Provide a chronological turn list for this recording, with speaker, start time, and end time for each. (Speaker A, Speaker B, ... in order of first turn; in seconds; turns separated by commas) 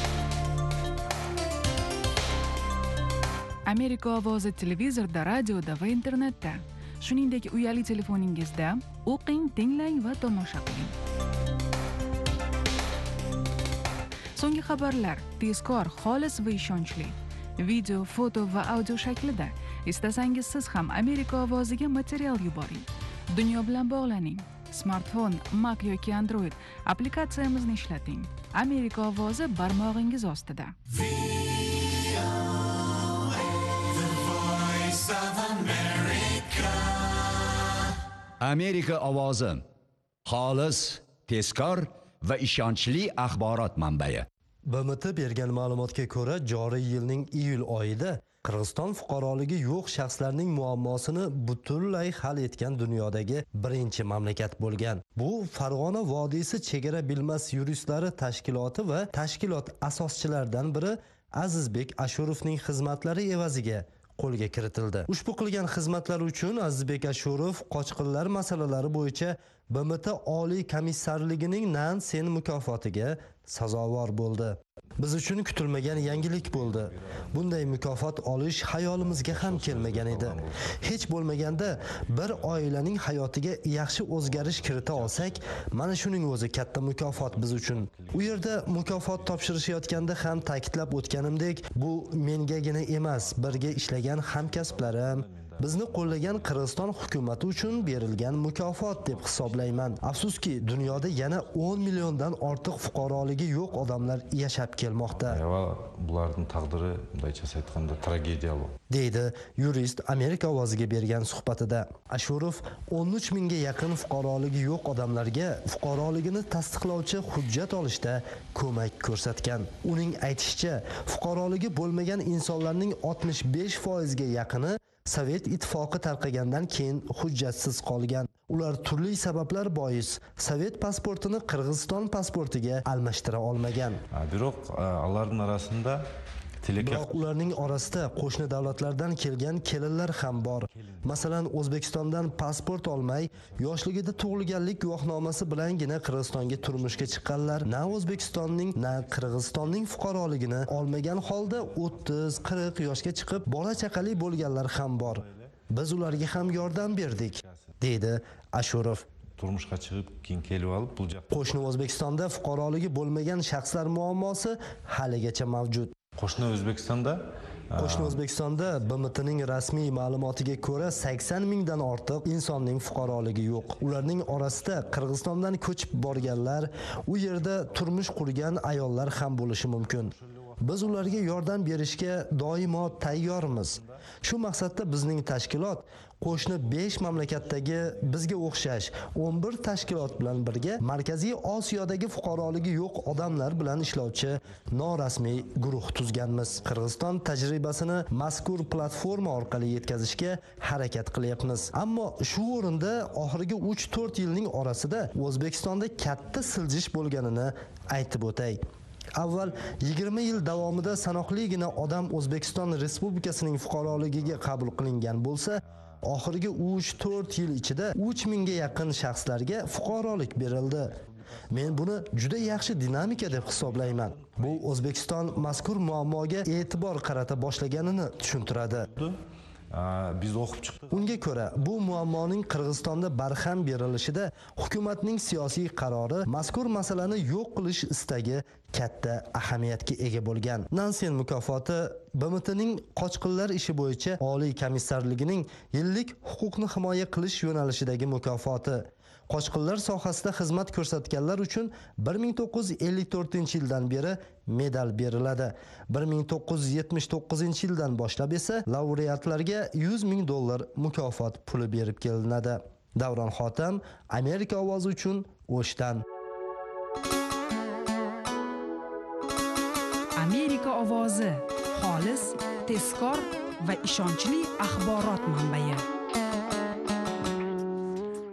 Speaker A: 3.6-10.9, Speaker A: 14.3-30.8, Speaker B: 38.4-39.6, Speaker B: 40.2-44.2, Speaker C: 44.7-105.4, Speaker D: 75.8-77.7, Speaker D: 79.0-82.7, Speaker D: 83.9-85.6, Speaker D: 87.0-90.5, Speaker D: 93.0-103.1, Speaker D: 105.1-108.7, Speaker C: 108.9-134.0, Speaker D: 134.1-136.0, Speaker D: 136.6-138.0, Speaker C: 136.8-159.0, Speaker D: 140.2-141.3, Speaker D: 143.3-144.4, Speaker D: 145.3-157.7, Speaker D: 159.4-161.6, Speaker C: 161.3-165.9, Speaker D: 166.1-169.2, Speaker C: 167.8-208.6, Speaker D: 172.8-175.2, Speaker D: 175.9-176.6, Speaker D: 177.4-178.4, Speaker D: 179.8-181.5, Speaker D: 182.6-184.1, Speaker D: 186.9-187.4, Speaker D: 189.9-190.6, Speaker D: 193.3-193.9, Speaker D: 195.4-196.7, Speaker D: 198.9-199.9, Speaker C: 209.2-228.9, Speaker D: 210.3-214.8, Speaker D: 215.6-219.1, Speaker D: 220.9-229.2, Speaker D: 229.7-231.9, Speaker C: 230.9-266.0, Speaker E: 270.2-275.8